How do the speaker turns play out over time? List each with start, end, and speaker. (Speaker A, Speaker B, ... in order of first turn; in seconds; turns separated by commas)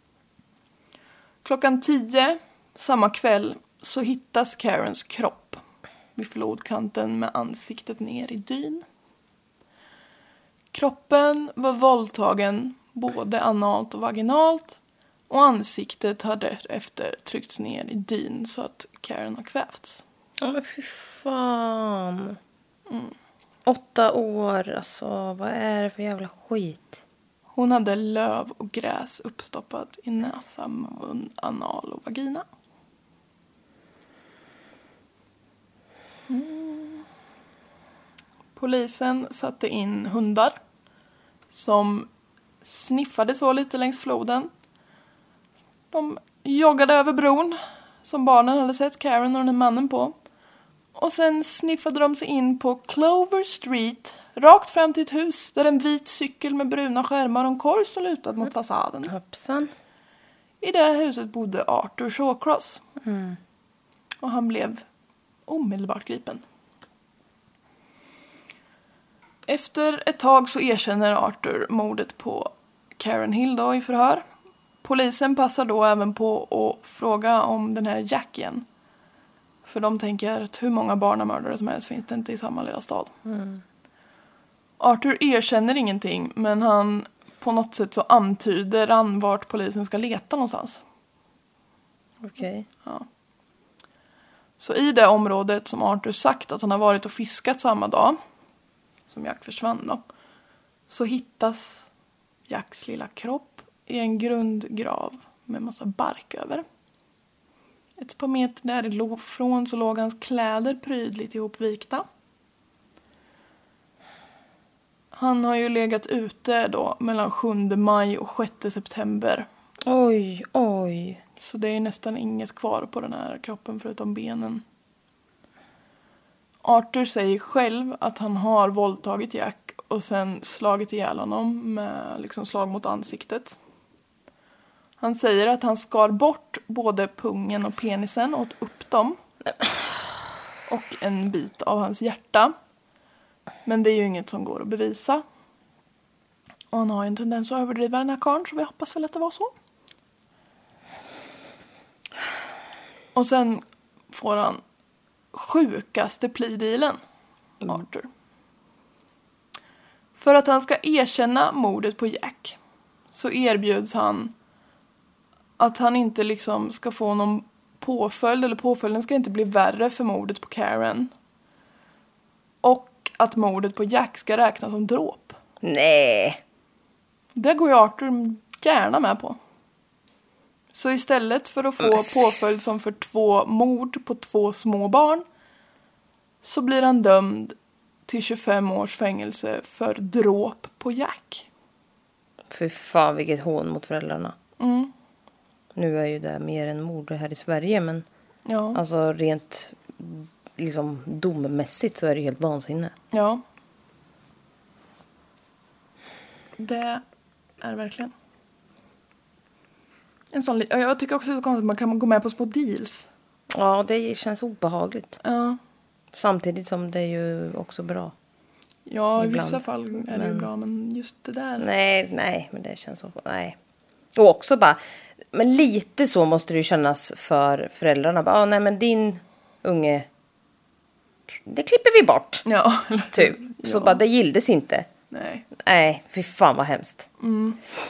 Speaker A: 1.4-5.6, Speaker A: 6.2-8.8, Speaker A: 10.7-20.0, Speaker B: 20.4-22.4, Speaker A: 22.9-23.1, Speaker B: 23.6-27.0, Speaker A: 27.6-32.4, Speaker A: 36.3-37.0, Speaker A: 38.5-40.6, Speaker A: 41.5-42.1, Speaker A: 42.6-44.5, Speaker A: 45.9-50.1, Speaker A: 50.9-59.1, Speaker B: 59.1-59.7, Speaker A: 60.6-62.8, Speaker B: 63.0-63.4, Speaker A: 64.2-64.8, Speaker A: 65.5-66.4, Speaker A: 69.5-74.2, Speaker A: 74.8-78.6, Speaker A: 79.7-83.1, Speaker B: 83.2-83.6, Speaker A: 84.8-90.8, Speaker B: 92.2-92.7, Speaker A: 94.6-98.2, Speaker A: 99.1-100.0, Speaker A: 100.9-101.9, Speaker A: 102.5-106.6, Speaker A: 108.0-112.0, Speaker A: 115.1-119.5, Speaker B: 119.9-121.2, Speaker A: 121.4-124.6, Speaker A: 126.6-133.6, Speaker A: 135.0-139.2, Speaker A: 140.7-142.5, Speaker A: 143.6-145.2, Speaker A: 146.7-149.5, Speaker A: 153.1-154.6, Speaker A: 155.3-157.0, Speaker A: 157.6-158.1, Speaker A: 160.2-162.6, Speaker A: 163.1-164.3, Speaker A: 165.6-171.1, Speaker A: 172.6-175.4, Speaker B: 175.6-176.4, Speaker A: 177.3-179.3, Speaker A: 180.7-185.2, Speaker A: 186.4-187.5, Speaker A: 188.1-191.5, Speaker B: 192.5-194.3, Speaker A: 194.6-194.9, Speaker B: 195.7-198.1, Speaker A: 198.4-198.8, Speaker B: 198.7-202.9, Speaker A: 203.1-203.4, Speaker A: 206.6-207.0, Speaker A: 207.6-208.1, Speaker A: 210.3-213.1, Speaker B: 213.5-215.2, Speaker A: 215.2-215.6, Speaker B: 216.1-218.1, Speaker A: 218.9-221.7, Speaker B: 219.2-220.5, Speaker B: 221.6-223.6, Speaker B: 224.1-224.8, Speaker B: 225.3-230.1, Speaker B: 231.3-232.4, Speaker A: 232.4-234.0, Speaker B: 233.1-234.9, Speaker A: 235.1-235.5, Speaker B: 235.6-237.1, Speaker A: 237.2-237.6